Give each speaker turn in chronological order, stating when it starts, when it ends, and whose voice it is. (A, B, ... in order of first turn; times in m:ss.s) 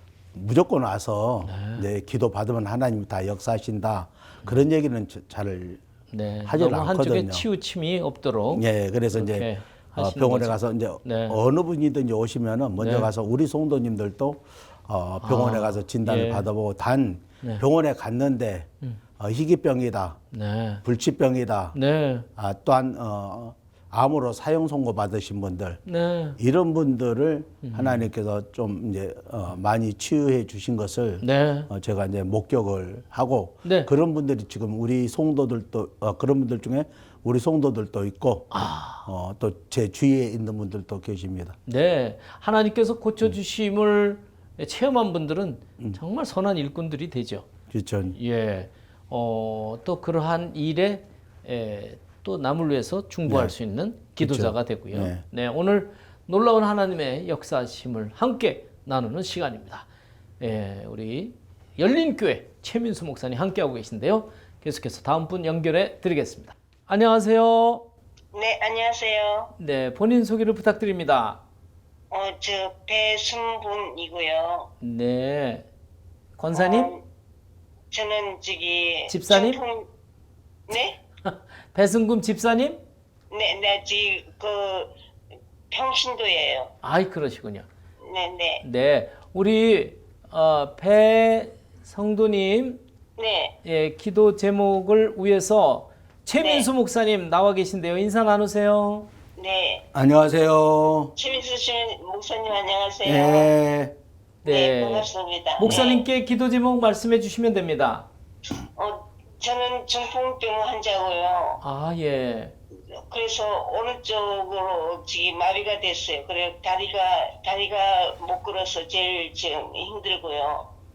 0:00.4-0:05.8 A
0:01.5-0:01.8 B
0:06.1-0:11.4 B
0:06.4-0:07.5 A
0:08.5-0:20.2 A
0:12.8-0:13.1 B
0:15.2-0:16.5 B
0:20.3-0:20.8 B
0:20.8-0:21.8 A
0:21.7-0:22.3 B
0:22.4-0:25.8 A
0:25.9-0:26.4 B
0:26.4-0:41.6 A
0:27.6-0:28.1 B
0:31.2-0:31.7 B
0:33.6-0:33.9 B
0:38.5-0:39.1 B
0:41.7-0:47.5 B
0:47.7-0:48.2 A
0:48.2-0:59.9 B
0:53.3-0:53.6 A
0:54.2-0:55.2 A
1:00.4-1:07.9 B
1:08.3-1:09.5 C
1:09.6-1:11.4 B
1:12.1-1:14.7 C
1:14.8-1:15.7 B
1:16.4-1:16.9 B
1:16.5-1:17.0 C
1:17.9-1:19.9 C
1:19.1-1:19.6 B
1:20.7-1:21.0 C
1:21.2-1:22.8 B
1:23.3-1:24.9 C
1:25.7-1:26.7 C
1:26.8-1:27.7 B
1:28.0-1:28.6 C
1:28.6-1:32.8 B
1:33.2-1:33.6 C
1:33.6-1:39.1 B
1:36.4-1:36.7 C
1:39.4-1:39.9 C
1:39.9-1:41.1 A
1:41.2-1:43.5 C
1:43.0-1:44.0 A
1:44.4-1:45.1 B
1:44.4-1:46.1 C
1:45.6-1:48.1 B
1:48.8-1:51.6 C
1:51.6-1:52.6 B
1:52.9-2:00.7 C